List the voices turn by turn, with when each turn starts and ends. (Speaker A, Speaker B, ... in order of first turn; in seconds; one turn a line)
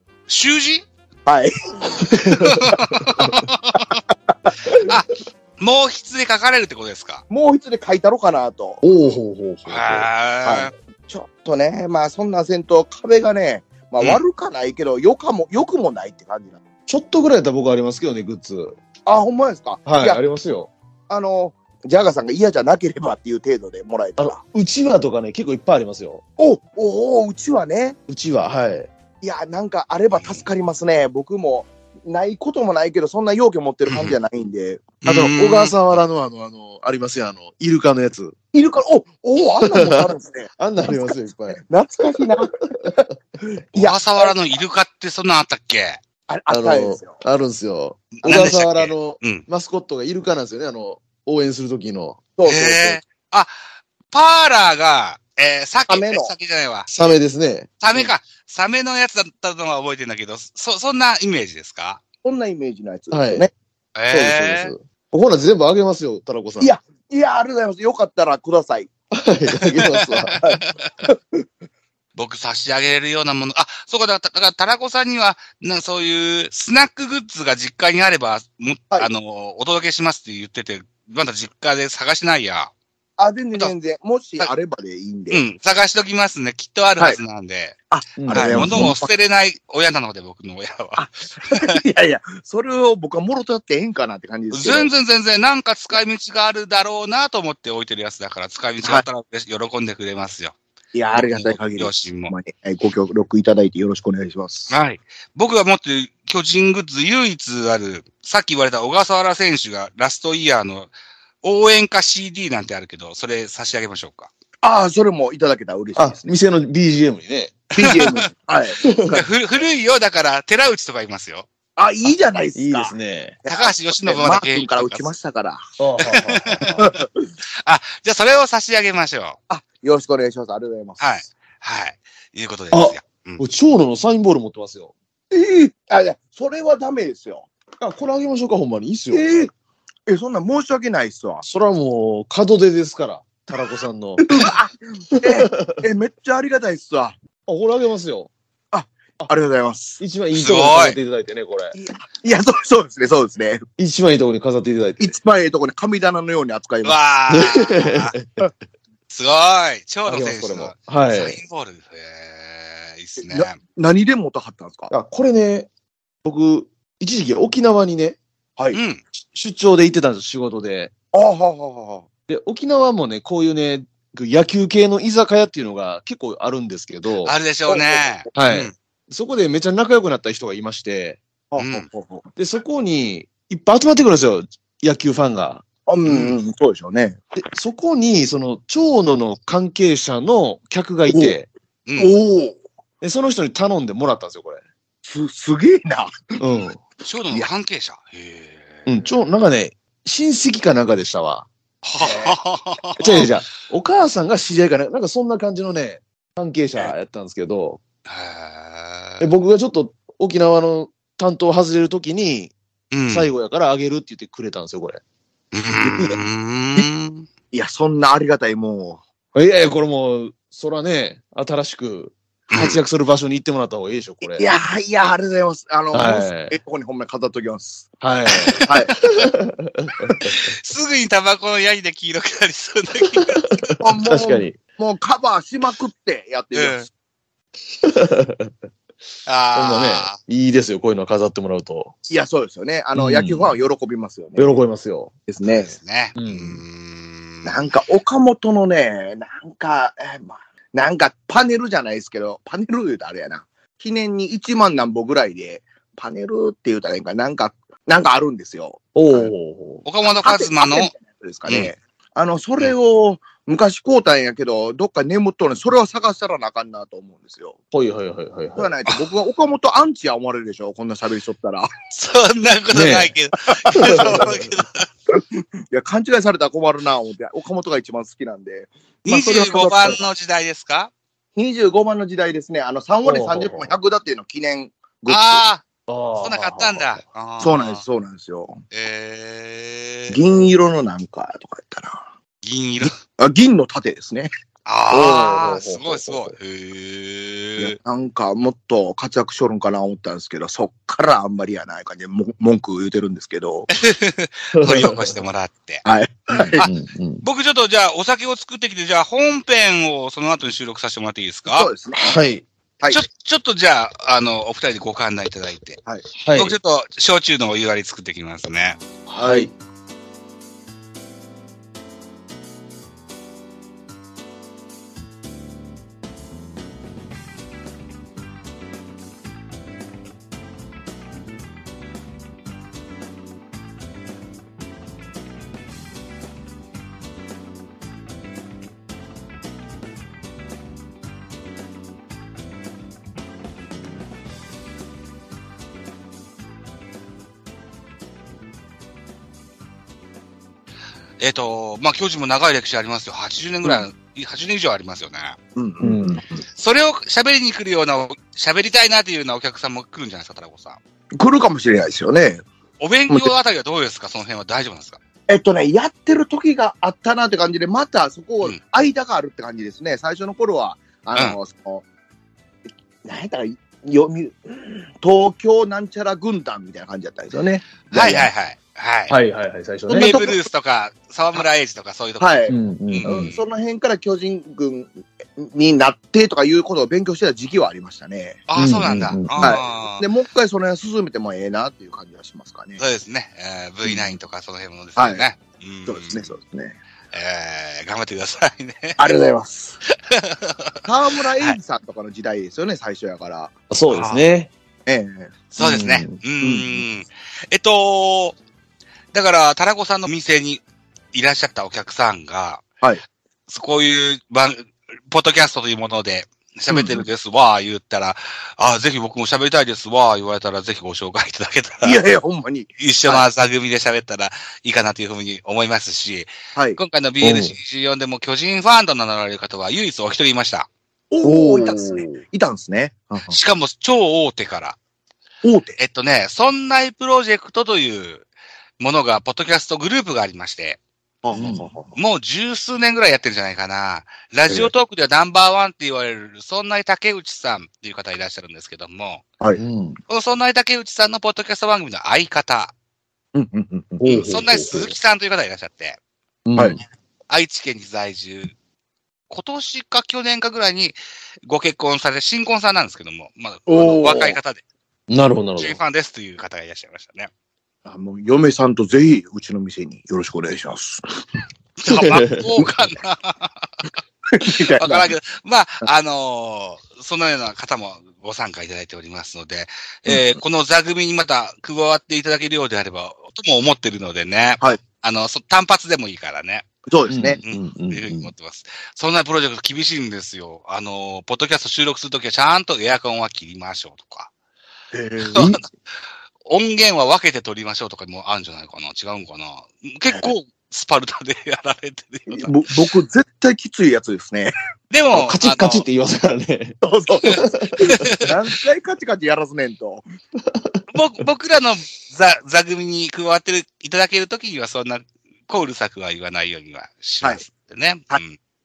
Speaker A: 0.3-0.9
Speaker B: 1.2-2.7
Speaker A: 2.3-3.9
Speaker B: 3.7-4.8
Speaker A: 4.8-7.2
Speaker B: 7.3-8.8
Speaker C: 8.8-10.1
Speaker A: 9.7-10.7
Speaker B: 10.4-16.6
Speaker C: 16.9-18.8
Speaker B: 19.1-20.2
Speaker C: 19.9-20.7
Speaker B: 21.1-24.4
Speaker C: 24.2-26.2
Speaker B: 26.4-28.0
Speaker C: 28.1-28.9
Speaker B: 29.2-34.9
Speaker A: 30.1-30.4
Speaker A: 33.9-34.1
Speaker A: 35.0-36.0
Speaker C: 35.0-38.3
Speaker B: 38.5-42.5
Speaker C: 39.6-41.6
Speaker C: 42.7-43.1
Speaker B: 43.4-44.5
Speaker A: 43.7-46.0
Speaker B: 46.3-47.2
Speaker C: 46.5-52.2
Speaker A: 48.2-49.5
Speaker B: 52.4-53.0
Speaker A: 52.5-57.1
Speaker B: 55.9-56.3
Speaker C: 56.9-57.7
Speaker A: 57.8-62.0
Speaker B: 62.2-63.5
Speaker C: 63.1-63.5
Speaker A: 63.9-64.7
Speaker C: 64.1-66.7
Speaker B: 66.6-68.9
Speaker C: 69.1-70.3
Speaker A: 69.6-70.9
Speaker B: 70.4-71.4
Speaker A: 72.2-82.7
Speaker B: 83.2-85.4
Speaker A: 85.3-87.8
Speaker B: 87.9-89.1
Speaker C: 88.2-88.9
Speaker A: 88.3-91.8
Speaker B: 91.0-94.9
Speaker A: 94.5-100.5
Speaker B: 100.9-104.8
Speaker A: 101.1-102.3
Speaker A: 104.7-114.3
Speaker B: 114.6-116.4
Speaker C: 115.9-118.0
Speaker A: 117.7-118.2
Speaker B: 117.8-119.3
Speaker C: 118.8-119.2
Speaker A: 119.1-121.5
Speaker B: 121.8-125.6
Speaker C: 122.5-123.4
Speaker A: 123.5-125.1
Speaker C: 125.8-126.8
Speaker A: 126.0-126.8
Speaker B: 126.6-127.2
Speaker A: 127.6-129.4
Speaker B: 129.5-131.2
Speaker A: 131.0-133.4
Speaker C: 132.7-134.9
Speaker B: 135.3-137.5
Speaker C: 137.8-139.3
Speaker B: 139.1-139.5
Speaker B: 140.1-141.5
Speaker C: 141.4-144.2
Speaker B: 144.2-147.2
Speaker C: 145.3-145.7
Speaker C: 147.5-148.3
Speaker B: 148.7-150.0
Speaker C: 150.0-151.7
Speaker A: 150.3-151.0
Speaker B: 151.7-153.6
Speaker C: 153.8-155.1
Speaker B: 155.0-157.0
Speaker A: 156.8-158.1
Speaker C: 157.3-158.5
Speaker A: 159.1-163.6
Speaker C: 160.1-161.4
Speaker B: 163.2-164.9
Speaker C: 164.9-165.7
Speaker C: 166.2-168.2
Speaker A: 168.7-169.0
Speaker C: 169.2-170.9
Speaker B: 171.1-172.1
Speaker C: 172.3-177.3
Speaker A: 177.2-178.7
Speaker B: 177.7-178.3
Speaker C: 178.3-181.2
Speaker B: 181.5-182.2
Speaker A: 181.6-181.9
Speaker C: 182.4-185.6
Speaker B: 185.8-187.2
Speaker A: 186.0-186.3
Speaker C: 187.3-191.5
Speaker B: 191.1-191.3
Speaker A: 191.9-192.1
Speaker B: 192.0-192.6
Speaker C: 193.0-194.6
Speaker B: 195.0-196.2
Speaker C: 196.4-196.8
Speaker A: 197.0-198.9
Speaker C: 198.9-201.5
Speaker A: 201.8-203.3
Speaker B: 202.0-202.4
Speaker C: 203.0-207.8
Speaker A: 208.1-209.3
Speaker C: 209.2-212.5
Speaker A: 212.9-213.3
Speaker C: 213.1-215.0
Speaker A: 215.5-217.2
Speaker C: 215.8-216.2
Speaker B: 217.5-219.0
Speaker C: 219.3-224.4
Speaker A: 222.5-222.8
Speaker B: 224.3-227.9
Speaker C: 225.9-226.6
Speaker C: 228.0-228.6
Speaker A: 228.3-229.3
Speaker B: 228.6-228.9
Speaker C: 229.2-230.3
Speaker A: 230.2-233.6
Speaker C: 233.6-234.6
Speaker B: 233.8-236.9
Speaker A: 236.5-236.8
Speaker C: 237.8-238.5
Speaker A: 239.2-240.2
Speaker C: 239.5-241.9
Speaker B: 242.0-244.6
Speaker C: 242.9-243.6
Speaker C: 244.3-245.1
Speaker B: 245.3-245.7
Speaker A: 245.4-247.6
Speaker C: 246.2-246.6
Speaker B: 247.4-259.3
Speaker C: 258.9-259.8
Speaker A: 259.8-260.9
Speaker B: 260.0-267.6
Speaker A: 261.4-261.7
Speaker C: 267.7-268.7
Speaker B: 268.5-271.7
Speaker A: 271.9-274.9
Speaker C: 272.7-273.1
Speaker B: 273.8-274.2
Speaker C: 273.8-274.5
Speaker B: 275.1-280.0
Speaker A: 279.0-280.9
Speaker B: 281.4-285.4
Speaker C: 283.0-283.7
Speaker A: 285.1-285.6
Speaker C: 285.9-287.0
Speaker A: 286.2-287.8
Speaker B: 287.4-288.6
Speaker A: 288.7-290.2
Speaker B: 290.1-292.1
Speaker A: 292.4-292.9
Speaker B: 293.0-294.3
Speaker A: 294.6-297.8
Speaker C: 294.9-296.3
Speaker B: 297.6-303.7
Speaker A: 303.7-305.8
Speaker C: 304.5-305.1
Speaker B: 305.8-306.6
Speaker A: 306.4-306.7
Speaker C: 306.6-307.2
Speaker A: 307.2-311.7
Speaker B: 311.4-312.1
Speaker C: 311.9-312.4
Speaker A: 312.9-315.8
Speaker C: 316.1-316.6
Speaker A: 316.3-318.8
Speaker C: 319.1-319.5
Speaker B: 319.2-319.5
Speaker A: 351.2-355.4
Speaker B: 355.6-356.4
Speaker C: 355.8-356.2
Speaker A: 356.5-360.8
Speaker B: 361.2-362.4
Speaker A: 362.8-365.0
Speaker B: 365.3-371.8
Speaker B: 373.0-378.3
Speaker A: 377.8-379.1
Speaker C: 379.1-380.2
Speaker A: 379.9-383.4
Speaker B: 379.9-380.4
Speaker B: 382.2-388.4
Speaker C: 382.5-383.3
Speaker A: 388.5-390.0
Speaker C: 388.6-389.6
Speaker B: 389.4-392.8
Speaker A: 392.8-396.3
Speaker B: 393.9-394.1
Speaker B: 394.9-395.3
Speaker B: 395.9-396.8
Speaker A: 397.1-399.0
Speaker B: 399.0-399.8
Speaker A: 400.1-400.8
Speaker B: 400.8-403.5
Speaker C: 403.7-404.5
Speaker A: 403.9-404.2
Speaker B: 404.9-405.4
Speaker C: 405.6-406.2
Speaker A: 405.6-408.4
Speaker B: 406.4-406.9
Speaker A: 409.1-412.6
Speaker A: 413.5-422.0
Speaker B: 416.7-417.1
Speaker B: 421.8-423.2
Speaker A: 422.8-430.7
Speaker B: 426.5-426.8
Speaker C: 427.2-427.6
Speaker B: 431.1-433.4
Speaker C: 431.2-432.1
Speaker A: 433.3-434.8
Speaker B: 435.4-435.8
Speaker A: 435.8-438.3
Speaker A: 438.8-440.8
Speaker B: 441.2-442.0
Speaker C: 441.3-441.7
Speaker A: 441.9-449.2
Speaker B: 444.5-444.7
Speaker C: 449.5-450.0
Speaker A: 450.1-452.7
Speaker B: 453.3-454.9
Speaker C: 454.0-454.9
Speaker A: 454.1-456.0
Speaker C: 456.4-456.8
Speaker A: 457.3-458.5
Speaker A: 459.3-464.6
Speaker B: 463.7-464.4
Speaker C: 465.1-465.8
Speaker A: 465.6-467.3
Speaker B: 467.8-471.0
Speaker A: 471.8-473.7
Speaker C: 471.9-472.5
Speaker B: 472.6-472.9
Speaker B: 474.3-475.1
Speaker A: 474.8-486.7
Speaker B: 480.1-480.4
Speaker B: 486.9-487.4
Speaker C: 487.1-488.3
Speaker A: 487.4-494.3
Speaker B: 494.9-495.5
Speaker A: 495.2-495.6
Speaker A: 496.4-502.6
Speaker B: 502.3-504.5
Speaker A: 504.9-505.9
Speaker C: 505.1-508.3
Speaker B: 506.8-510.1
Speaker C: 510.5-510.8
Speaker A: 510.9-518.4